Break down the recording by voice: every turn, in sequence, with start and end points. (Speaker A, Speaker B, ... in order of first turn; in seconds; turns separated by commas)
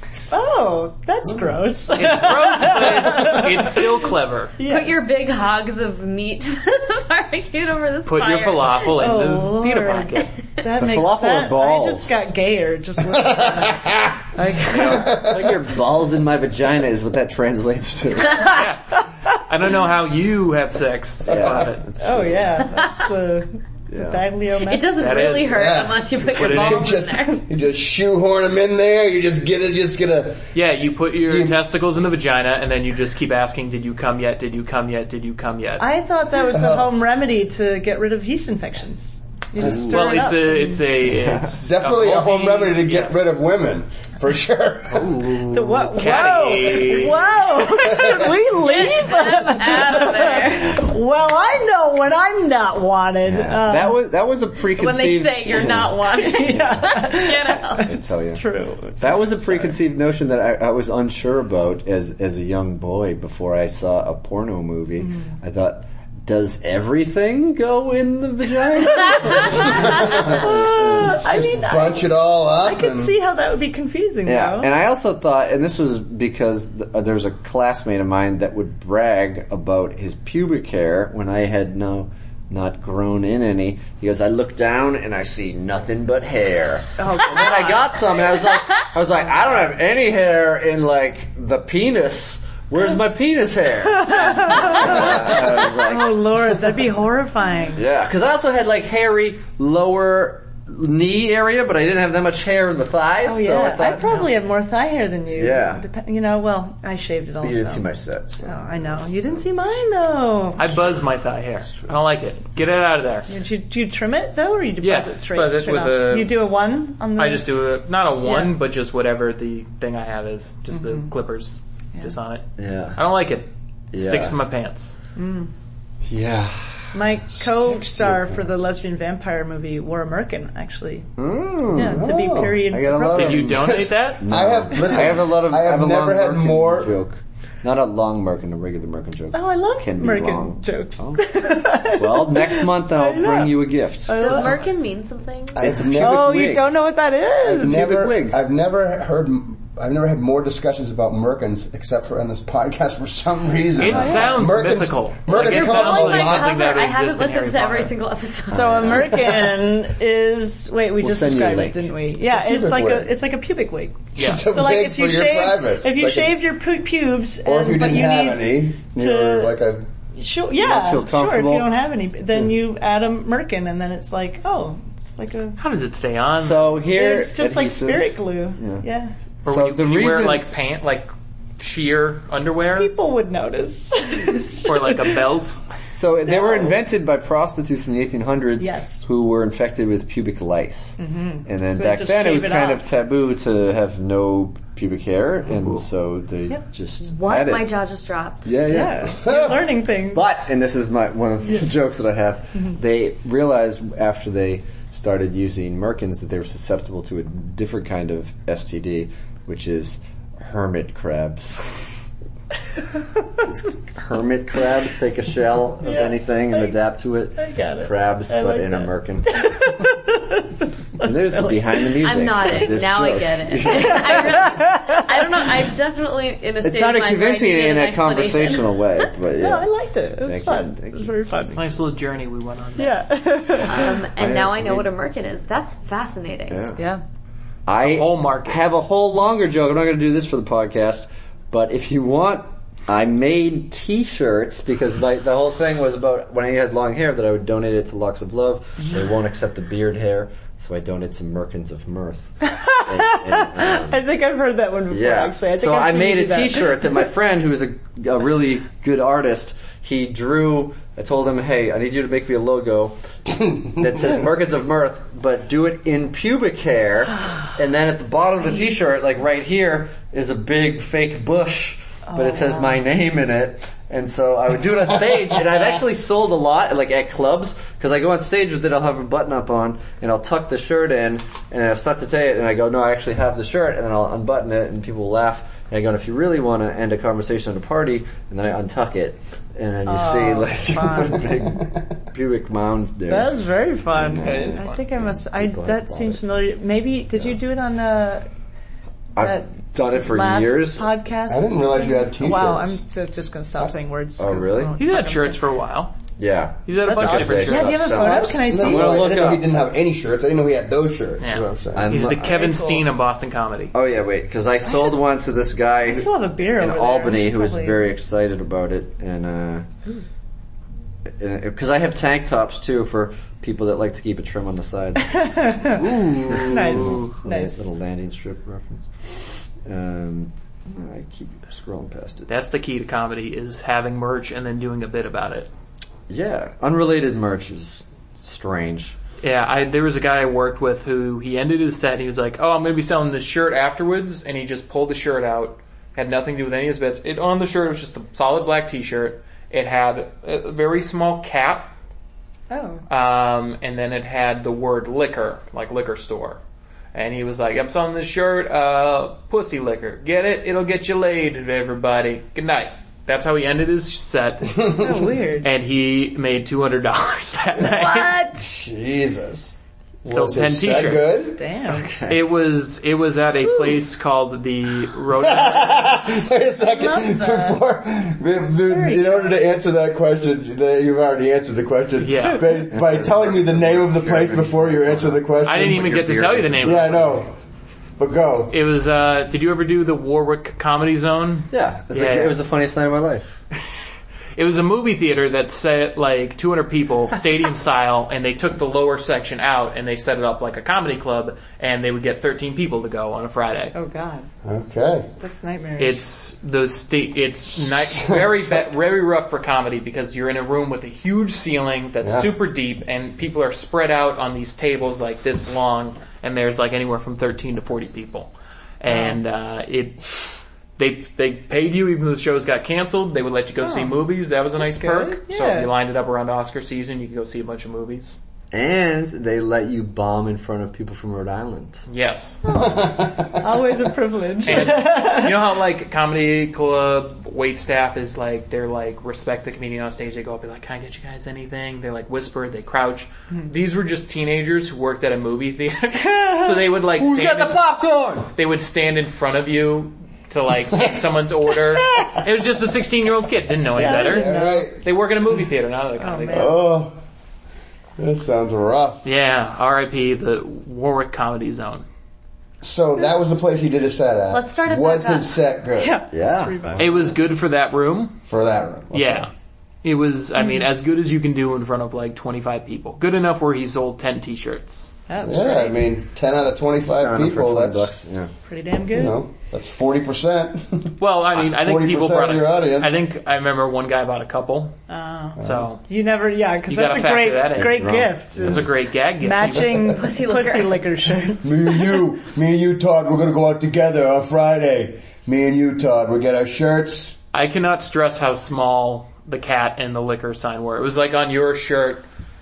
Speaker A: 0.3-3.9, Speaker B: 1.9-4.6, Speaker A: 4.6-5.1, Speaker C: 4.6-8.9, Speaker B: 8.1-10.3, Speaker A: 8.9-15.2, Speaker D: 10.8-12.3, Speaker E: 13.4-14.2, Speaker D: 14.7-18.6, Speaker E: 14.8-15.4, Speaker B: 18.4-21.9, Speaker E: 21.3-21.6, Speaker D: 21.3-22.7, Speaker A: 22.0-25.0, Speaker C: 22.7-23.1, Speaker D: 23.9-24.3, Speaker C: 24.6-27.4, Speaker B: 25.0-25.7, Speaker E: 25.5-30.5, Speaker B: 26.3-26.9, Speaker B: 30.5-35.9, Speaker E: 31.2-31.6, Speaker A: 35.8-40.8, Speaker E: 36.5-36.9, Speaker D: 39.6-40.0, Speaker B: 39.7-43.2, Speaker D: 41.1-41.5, Speaker E: 41.6-45.2, Speaker D: 45.0-45.9, Speaker A: 45.5-54.0, Speaker B: 45.9-47.3, Speaker C: 48.5-50.8, Speaker D: 53.2-56.9, Speaker C: 54.7-57.9, Speaker A: 56.1-59.8, Speaker D: 57.8-58.4, Speaker D: 59.0-71.2, Speaker A: 65.0-65.3, Speaker A: 69.0-74.7, Speaker E: 69.6-73.1, Speaker D: 74.2-96.4, Speaker A: 87.0-87.7, Speaker A: 94.0-97.8, Speaker D: 97.8-104.3, Speaker A: 103.2-107.8, Speaker D: 105.3-105.8, Speaker D: 107.4-108.6, Speaker A: 108.4-110.6, Speaker B: 110.6-113.3, Speaker A: 113.3-117.5, Speaker B: 114.8-116.4, Speaker B: 117.2-125.0, Speaker A: 118.2-118.6, Speaker A: 120.7-121.1, Speaker D: 122.6-123.0, Speaker D: 123.9-124.4, Speaker A: 125.2-125.5, Speaker D: 126.0-126.9, Speaker A: 126.9-131.1, Speaker E: 127.7-128.2, Speaker D: 131.2-144.6, Speaker A: 131.7-133.6, Speaker E: 131.9-132.5, Speaker B: 133.1-134.3, Speaker E: 133.6-136.9, Speaker A: 139.3-144.7, Speaker C: 144.2-145.6, Speaker E: 145.6-146.5, Speaker D: 145.6-146.8, Speaker A: 145.9-147.8, Speaker D: 147.4-148.4, Speaker E: 147.5-156.6, Speaker B: 153.8-157.9, Speaker A: 153.9-154.3, Speaker C: 155.3-159.0, Speaker A: 158.5-169.6, Speaker D: 158.5-159.3, Speaker D: 161.0-161.9, Speaker E: 162.2-163.1, Speaker B: 164.2-164.5, Speaker E: 164.2-166.3, Speaker E: 167.4-169.9, Speaker A: 170.2-175.6, Speaker D: 170.5-171.7, Speaker B: 175.6-176.8, Speaker D: 176.3-178.8, Speaker A: 176.9-179.1, Speaker D: 179.4-180.5, Speaker B: 179.4-182.9, Speaker A: 182.7-185.2, Speaker B: 184.6-185.6, Speaker D: 185.9-197.8, Speaker A: 186.3-186.8, Speaker A: 188.6-189.0, Speaker A: 191.0-192.8, Speaker C: 197.0-198.6, Speaker D: 198.4-199.6, Speaker A: 198.7-200.2, Speaker D: 200.1-211.9, Speaker D: 213.5-219.5, Speaker A: 215.8-216.8, Speaker A: 217.4-221.9, Speaker D: 221.0-224.4, Speaker C: 222.0-229.1, Speaker A: 223.7-225.3, Speaker D: 226.6-229.7, Speaker A: 229.4-231.7, Speaker D: 230.2-231.1, Speaker B: 231.5-233.0, Speaker A: 232.8-234.0, Speaker C: 233.7-236.7, Speaker D: 233.9-234.9, Speaker D: 236.5-236.8, Speaker D: 237.7-254.0, Speaker B: 237.8-238.6, Speaker A: 252.4-257.0, Speaker D: 254.9-263.0, Speaker D: 263.8-296.2, Speaker A: 272.1-272.8, Speaker A: 289.9-291.2, Speaker A: 293.1-298.3, Speaker B: 294.2-294.8, Speaker D: 299.2-300.9, Speaker A: 299.2-305.4, Speaker E: 301.3-302.8, Speaker D: 304.2-304.7, Speaker B: 304.8-305.9, Speaker D: 306.2-309.5, Speaker B: 306.6-308.0, Speaker A: 306.8-309.0, Speaker E: 308.4-311.9, Speaker B: 311.2-313.7, Speaker D: 311.7-312.4, Speaker A: 312.2-312.9, Speaker D: 313.7-319.7, Speaker A: 315.9-317.9, Speaker D: 321.1-328.9, Speaker A: 325.1-325.8, Speaker B: 326.1-327.1, Speaker A: 326.4-327.7, Speaker D: 329.6-332.3, Speaker B: 332.3-335.5, Speaker D: 336.1-339.0, Speaker B: 339.2-351.7, Speaker A: 352.5-352.8, Speaker B: 352.9-356.4, Speaker B: 356.9-364.5, Speaker A: 364.8-365.5, Speaker B: 365.4-368.3, Speaker A: 367.8-368.3, Speaker E: 368.4-369.5, Speaker E: 370.1-371.4, Speaker B: 370.1-371.1, Speaker A: 371.4-371.9, Speaker D: 371.7-372.2, Speaker B: 372.1-376.0, Speaker A: 373.4-373.8, Speaker E: 375.2-387.3, Speaker A: 376.6-377.6, Speaker A: 378.6-379.4, Speaker B: 382.0-382.5, Speaker D: 382.7-387.0, Speaker B: 385.4-387.1, Speaker E: 388.0-388.5, Speaker B: 388.5-392.4, Speaker D: 391.5-393.4, Speaker B: 394.4-403.7, Speaker A: 403.7-404.3, Speaker E: 404.4-405.1, Speaker A: 405.2-406.0, Speaker B: 405.8-428.2, Speaker E: 407.6-408.7, Speaker E: 412.0-412.3, Speaker A: 418.9-419.2, Speaker A: 423.6-424.0, Speaker A: 424.6-425.7, Speaker D: 428.5-431.9, Speaker B: 431.9-432.4, Speaker A: 432.4-435.4, Speaker E: 432.5-433.7, Speaker B: 434.4-447.7, Speaker D: 446.7-448.3, Speaker B: 448.2-456.6, Speaker A: 451.9-452.2, Speaker A: 453.8-454.7, Speaker E: 453.8-454.8, Speaker A: 456.0-456.6, Speaker E: 456.3-456.9, Speaker E: 458.0-459.1, Speaker B: 459.0-461.9, Speaker E: 462.6-466.0, Speaker C: 464.3-465.4, Speaker A: 465.8-467.1, Speaker D: 466.1-466.8, Speaker B: 466.8-468.2, Speaker E: 468.3-469.2, Speaker B: 468.9-469.3, Speaker B: 469.8-474.9, Speaker A: 470.4-470.7, Speaker A: 475.1-475.8, Speaker E: 475.2-477.9, Speaker D: 476.8-478.3, Speaker A: 478.5-479.2, Speaker E: 478.9-483.0, Speaker B: 481.0-484.8, Speaker A: 484.9-491.9, Speaker B: 485.4-485.8, Speaker E: 485.4-485.7, Speaker B: 486.7-489.9, Speaker D: 487.6-488.5, Speaker C: 489.9-490.9, Speaker E: 491.4-497.2, Speaker B: 497.3-502.0